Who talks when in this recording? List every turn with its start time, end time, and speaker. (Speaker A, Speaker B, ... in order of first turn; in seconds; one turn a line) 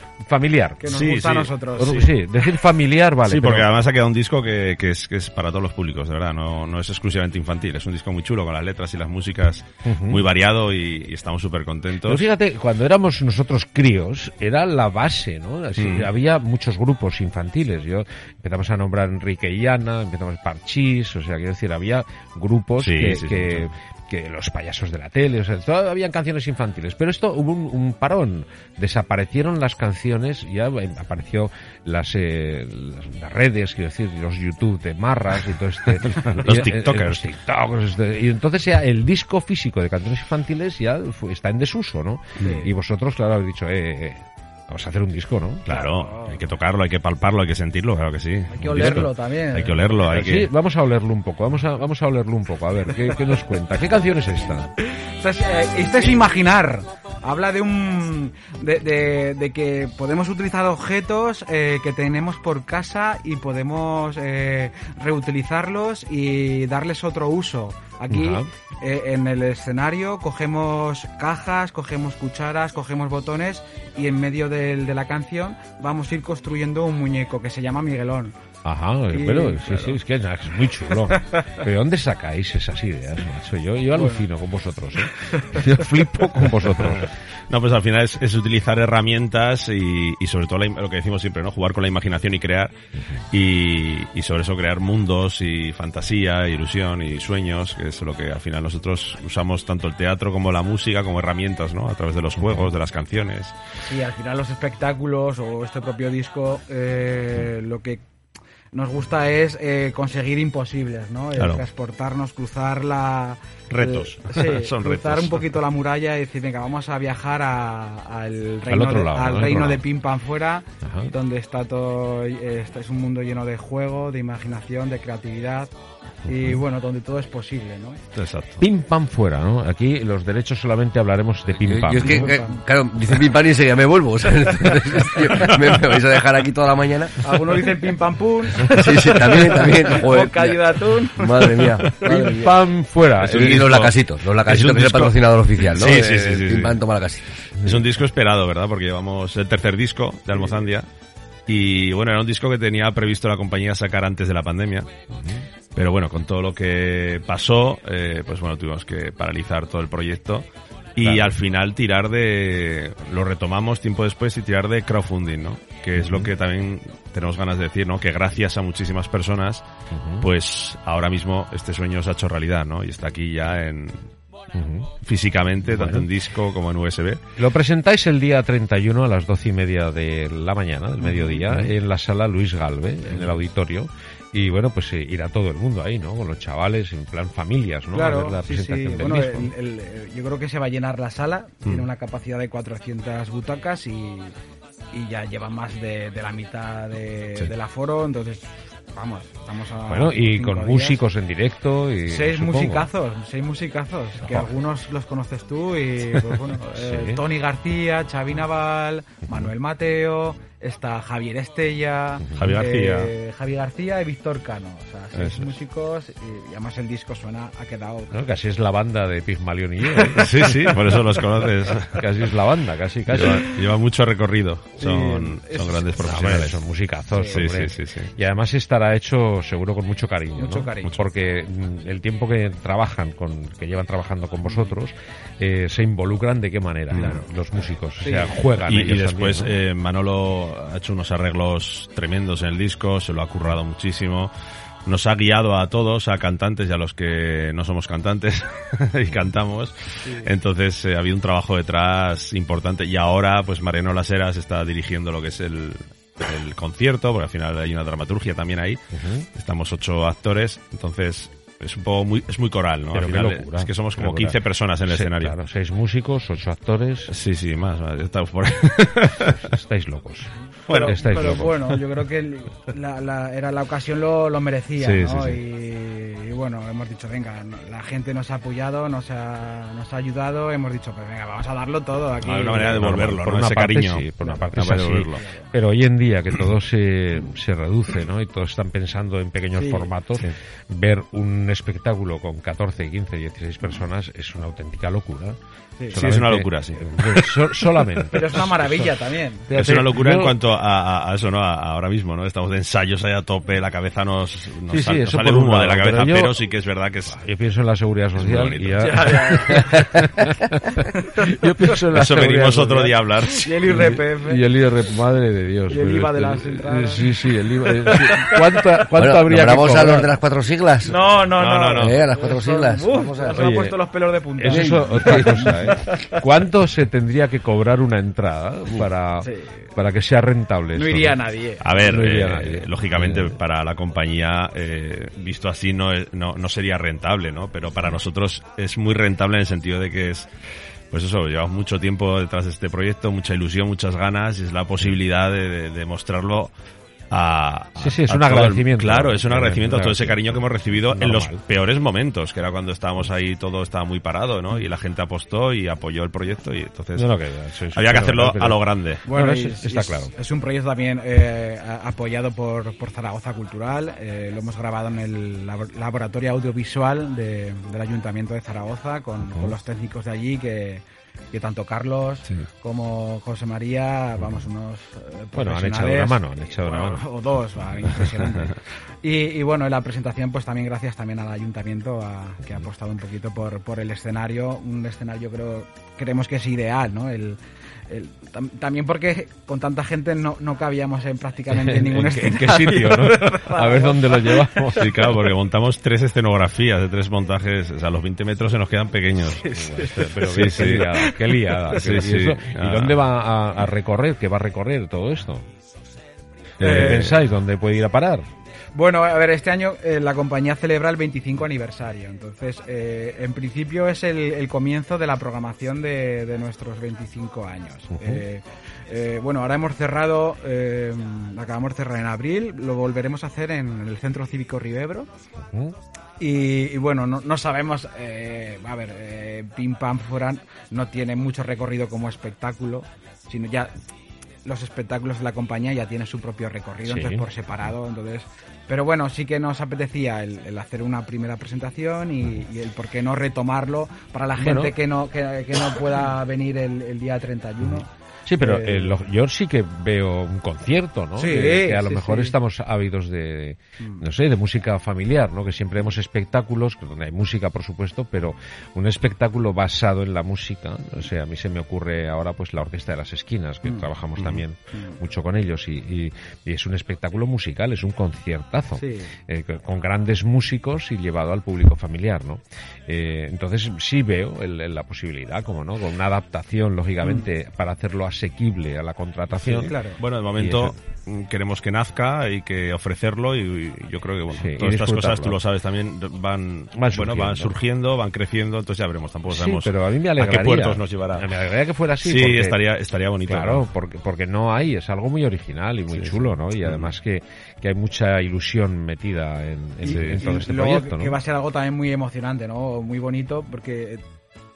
Speaker A: 0.2-1.0
Speaker B: 0.8-2.1
Speaker C: 0.9-1.5
Speaker A: 1.8-3.7
Speaker C: 3.2-12.2
Speaker A: 9.8-10.2
Speaker A: 12.0-45.7
Speaker C: 15.8-16.1
Speaker C: 22.8-23.7
Speaker C: 36.0-37.3
Speaker B: 42.4-42.7
Speaker C: 45.6-50.5
Speaker B: 45.7-46.4
Speaker B: 48.5-50.1
Speaker A: 48.6-49.1
Speaker A: 50.0-54.7
Speaker B: 55.0-78.3
Speaker A: 68.1-68.5
Speaker A: 78.6-87.1
Speaker B: 79.1-80.0
Speaker B: 83.9-84.3
Speaker B: 85.2-85.7
Speaker C: 87.5-92.7
Speaker C: 93.3-103.5
Speaker A: 102.4-102.7
Speaker B: 103.8-108.0
Speaker B: 108.7-125.7
Speaker C: 111.4-111.6
Speaker C: 113.7-115.6
Speaker A: 118.7-119.8
Speaker A: 120.8-121.1
Speaker B: 126.2-128.0
Speaker A: 126.3-126.6
Speaker C: 128.1-128.6
Speaker A: 128.6-132.3
Speaker D: 131.6-137.2
Speaker B: 132.0-132.6
Speaker B: 137.2-142.5
Speaker D: 138.7-142.5
Speaker A: 142.1-143.6
Speaker C: 143.2-146.9
Speaker D: 143.2-147.3
Speaker C: 147.6-150.9
Speaker C: 151.5-154.9
Speaker A: 155.1-155.4
Speaker C: 155.7-169.7
Speaker A: 161.0-161.3
Speaker A: 165.9-166.3
Speaker A: 169.9-170.3
Speaker C: 170.2-174.1
Speaker A: 174.5-174.9
Speaker C: 175.0-177.2
Speaker A: 175.6-176.1
Speaker A: 177.4-189.5
Speaker B: 181.0-181.5
Speaker C: 183.1-183.4
Speaker B: 187.9-194.3
Speaker B: 194.9-201.0
Speaker A: 199.8-202.9
Speaker B: 202.1-218.1
Speaker A: 206.7-207.2
Speaker A: 212.2-212.6
Speaker C: 212.3-213.1
Speaker C: 215.1-215.5
Speaker A: 218.1-220.3
Speaker B: 219.9-220.3
Speaker C: 220.2-222.1
Speaker A: 221.9-223.5
Speaker C: 223.1-226.6
Speaker B: 224.8-226.0
Speaker A: 226.0-239.6
Speaker B: 227.1-227.4
Speaker C: 227.2-228.1
Speaker B: 230.4-231.0
Speaker B: 234.4-234.7
Speaker C: 236.9-237.3
Speaker B: 238.0-238.3
Speaker C: 238.7-244.3
Speaker C: 244.8-258.8
Speaker B: 250.0-250.3
Speaker A: 258.9-259.2
Speaker C: 259.3-265.4
Speaker A: 262.9-267.1
Speaker C: 267.1-269.5
Speaker A: 269.4-271.6
Speaker C: 270.7-271.5
Speaker B: 270.7-282.8
Speaker C: 274.8-275.4
Speaker C: 282.2-285.2
Speaker A: 282.6-298.9
Speaker B: 285.2-285.5
Speaker B: 289.5-289.9
Speaker B: 295.8-296.1
Speaker C: 295.9-298.3
Speaker B: 298.1-299.5
Speaker A: 299.5-300.4
Speaker C: 299.5-307.2
Speaker A: 304.7-306.4
Speaker A: 307.1-312.9
Speaker C: 308.1-309.2
Speaker B: 308.8-310.0
Speaker B: 310.8-311.5
Speaker C: 311.9-313.5
Speaker B: 312.8-314.4
Speaker A: 313.6-320.1
Speaker B: 315.7-317.1
Speaker B: 317.7-318.8
Speaker D: 318.9-321.0
Speaker B: 320.8-326.1
Speaker C: 321.4-322.0
Speaker D: 321.7-323.4
Speaker A: 323.3-323.8
Speaker A: 324.4-331.2
Speaker D: 324.5-325.6
Speaker B: 329.2-329.6
Speaker B: 330.7-331.7
Speaker C: 331.6-340.3
Speaker A: 331.7-333.4
Speaker C: 340.9-346.5
Speaker C: 347.1-357.1
Speaker A: 347.8-351.4
Speaker A: 356.9-360.1
Speaker C: 357.7-359.0
Speaker B: 359.1-394.9
Speaker A: 375.3-377.1
Speaker A: 391.5-395.2
Speaker C: 394.7-399.4
Speaker B: 399.3-401.6
Speaker A: 399.4-405.5
Speaker C: 400.2-400.9
Speaker C: 401.7-403.0
Speaker B: 406.6-407.2
Speaker C: 406.6-407.2
Speaker A: 406.6-408.2
Speaker B: 408.7-425.1
Speaker A: 417.9-418.2
Speaker B: 426.2-433.7
Speaker B: 434.4-449.0
Speaker A: 436.8-437.3
Speaker A: 444.4-444.8
Speaker A: 447.6-479.7
Speaker B: 451.1-452.4
Speaker B: 463.6-463.9
Speaker C: 464.2-464.4
Speaker B: 468.8-469.1
Speaker B: 477.0-477.3
Speaker C: 479.4-491.3
Speaker B: 479.4-480.0
Speaker A: 480.4-480.8
Speaker A: 484.3-485.4
Speaker A: 486.7-487.5
Speaker A: 489.3-492.6
Speaker C: 492.0-493.6
Speaker A: 493.2-501.2
Speaker C: 495.9-496.9
Speaker C: 499.8-500.2
Speaker B: 499.8-504.0